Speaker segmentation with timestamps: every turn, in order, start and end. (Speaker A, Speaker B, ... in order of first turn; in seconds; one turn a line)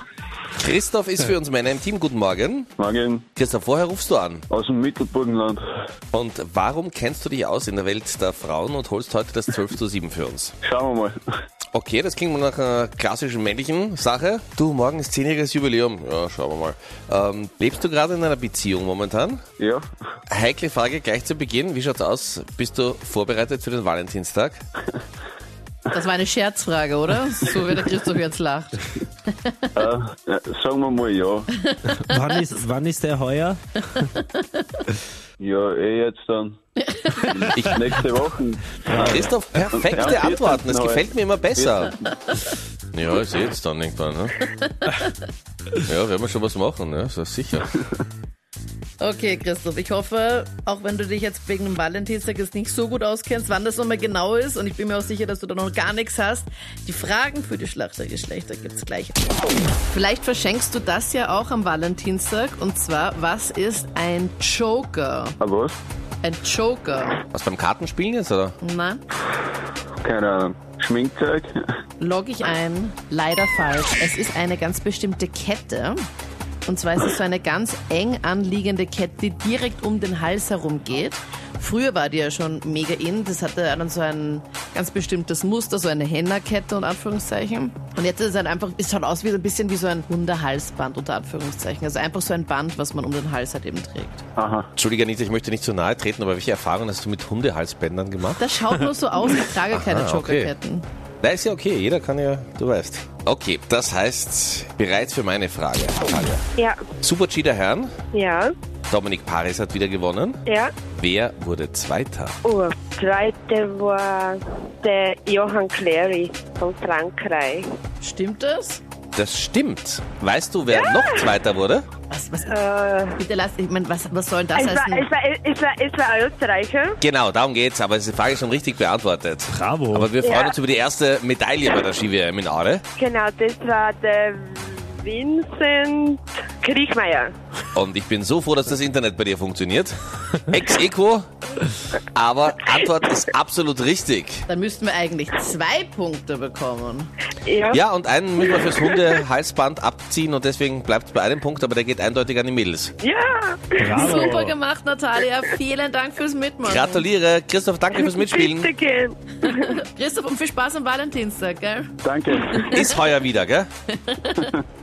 Speaker A: 0.5-2.7
Speaker B: 2.8-3.2
Speaker A: 3.4-4.4
Speaker B: 4.5-5.6
Speaker A: 6.1-10.5
Speaker B: 10.6-11.2
Speaker A: 11.7-19.4
Speaker B: 19.6-19.9
Speaker A: 20.3-24.6
Speaker C: 25.9-29.7
Speaker B: 29.8-31.5
Speaker C: 31.6-32.4
Speaker D: 31.9-33.6
Speaker C: 33.9-34.8
Speaker B: 35.4-36.6
Speaker C: 36.8-37.5
Speaker B: 37.2-42.1
Speaker A: 37.5-37.8
Speaker D: 38.9-39.2
Speaker A: 39.0-42.0
Speaker A: 42.9-44.5
Speaker C: 44.8-45.1
Speaker A: 45.8-47.7
Speaker C: 49.0-65.4
Speaker B: 65.4-65.8
Speaker C: 66.2-67.2
Speaker A: 67.3-68.6
Speaker C: 68.6-69.0
Speaker B: 70.0-71.6
Speaker C: 72.0-76.0
Speaker C: 76.7-94.2
Speaker B: 94.4-94.7
Speaker A: 94.8-98.9
Speaker C: 98.4-100.8
Speaker A: 99.7-100.5
Speaker A: 101.2-106.4
Speaker A: 107.0-107.9
Speaker E: 108.1-108.5
Speaker A: 108.9-110.4
Speaker E: 110.5-110.7
Speaker A: 111.0-112.3
Speaker E: 112.4-117.7
Speaker C: 118.0-118.8
Speaker A: 119.2-121.8
Speaker E: 120.7-121.3
Speaker C: 122.1-122.5
Speaker E: 122.5-123.2
Speaker C: 123.2-125.1
Speaker E: 124.5-127.0
Speaker A: 127.0-132.8
Speaker D: 129.5-130.1
Speaker E: 130.2-130.6
Speaker E: 133.0-137.3
Speaker A: 137.7-141.3
Speaker A: 142.1-144.4
Speaker C: 144.5-147.1
Speaker E: 147.4-147.8
Speaker A: 147.7-152.9
Speaker E: 148.4-149.2
Speaker E: 153.0-154.3
Speaker D: 153.8-154.6
Speaker C: 153.9-157.1
Speaker A: 156.6-158.7
Speaker E: 157.9-159.8
Speaker C: 159.4-161.9
Speaker B: 162.0-162.8
Speaker C: 162.5-162.8
Speaker A: 162.7-163.7
Speaker C: 163.9-164.5